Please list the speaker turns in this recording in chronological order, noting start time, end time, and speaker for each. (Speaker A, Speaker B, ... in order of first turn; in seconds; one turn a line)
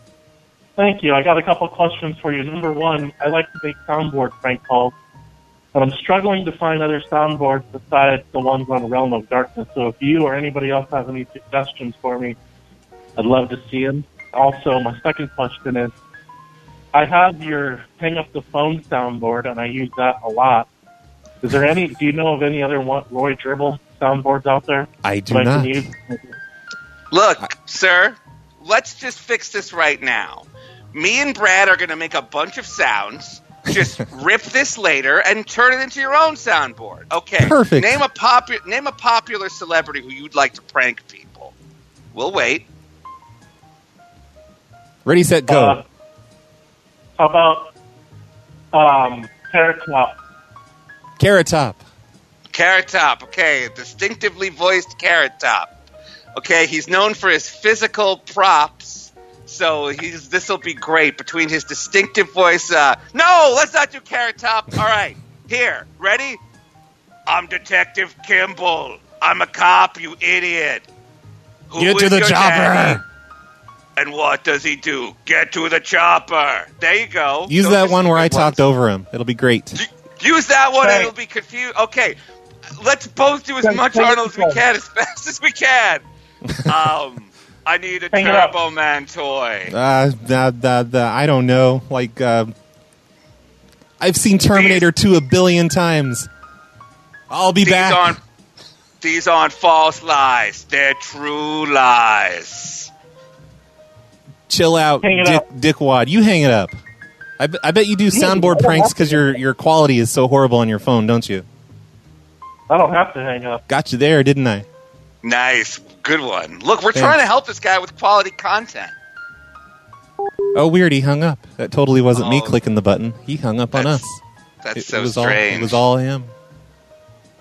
Speaker A: 0.8-4.9
Speaker A: 5.7-12.4
Speaker A: 13.2-15.9
Speaker A: 16.9-20.7
Speaker A: 21.4-26.4
Speaker B: 25.0-25.9
Speaker C: 27.1-41.5
Speaker B: 37.4-38.0
Speaker C: 42.1-42.7
Speaker B: 45.0-45.8
Speaker A: 45.5-45.8
Speaker A: 47.2-47.7
Speaker A: 48.7-50.2
Speaker B: 51.2-51.8
Speaker C: 52.5-55.7
Speaker C: 56.4-66.4
Speaker C: 67.3-70.8
Speaker C: 71.7-73.0
Speaker B: 71.8-73.0
Speaker C: 74.0-78.6
Speaker B: 77.5-79.8
Speaker C: 79.8-82.2
Speaker A: 80.8-81.1
Speaker C: 82.8-86.0
Speaker A: 83.6-84.6
Speaker C: 86.7-89.7
Speaker A: 88.1-88.5
Speaker B: 89.7-92.5
Speaker B: 94.0-96.3
Speaker C: 94.5-94.8
Speaker B: 97.3-98.2
Speaker C: 97.6-98.2
Speaker C: 99.0-102.9
Speaker B: 104.5-106.8
Speaker A: 105.0-105.4
Speaker B: 107.4-111.5
Speaker A: 108.1-109.2
Speaker A: 112.7-113.6
Speaker B: 113.7-114.7
Speaker C: 115.2-118.9
Speaker B: 120.5-124.2
Speaker C: 122.2-122.6
Speaker C: 123.8-124.0
Speaker C: 124.6-125.8
Speaker B: 124.8-126.3